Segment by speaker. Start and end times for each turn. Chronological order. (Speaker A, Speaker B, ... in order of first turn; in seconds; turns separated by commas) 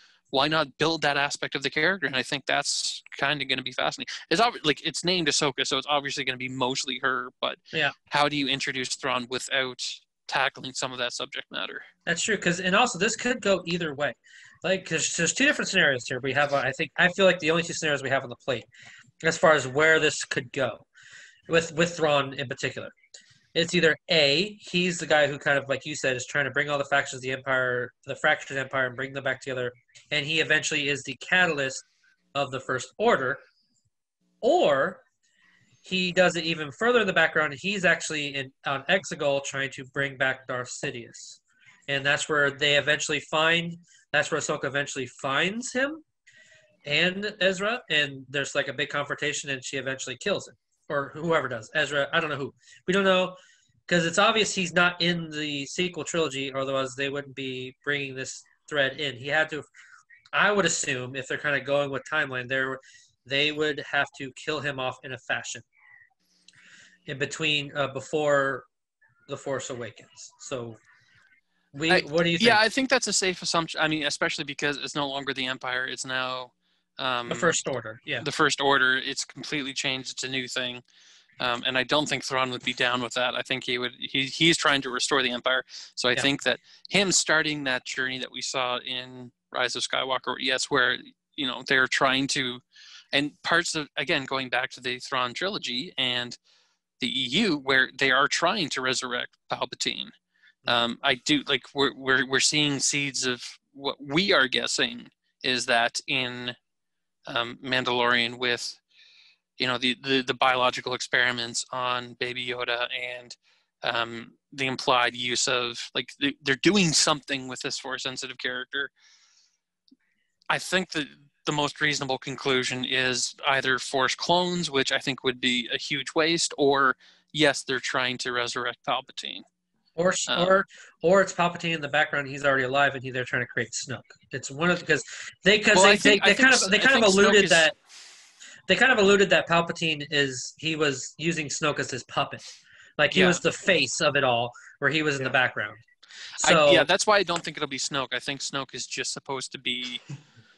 Speaker A: 0.3-11.8, Speaker B: 12.1-18.7, Speaker B: 19.2-20.9, Speaker B: 21.5-22.9, Speaker B: 23.5-33.4, Speaker B: 34.4-35.0, Speaker B: 35.8-46.0, Speaker B: 46.8-53.4, Speaker B: 53.9-59.6, Speaker B: 60.3-65.7, Speaker B: 67.1-68.7, Speaker B: 69.3-70.8, Speaker B: 71.7-72.6, Speaker A: 71.9-77.5, Speaker B: 77.3-78.3, Speaker A: 78.2-80.8, Speaker A: 81.4-92.6, Speaker A: 93.1-96.4, Speaker A: 97.0-100.1, Speaker A: 100.7-106.5, Speaker A: 107.3-108.8, Speaker A: 109.6-118.9, Speaker A: 120.5-129.4, Speaker B: 129.9-137.7, Speaker A: 130.3-130.6, Speaker A: 135.7-137.7, Speaker B: 138.7-142.4, Speaker B: 143.0-145.8, Speaker A: 143.1-143.4, Speaker B: 146.4-146.9, Speaker A: 146.4-150.0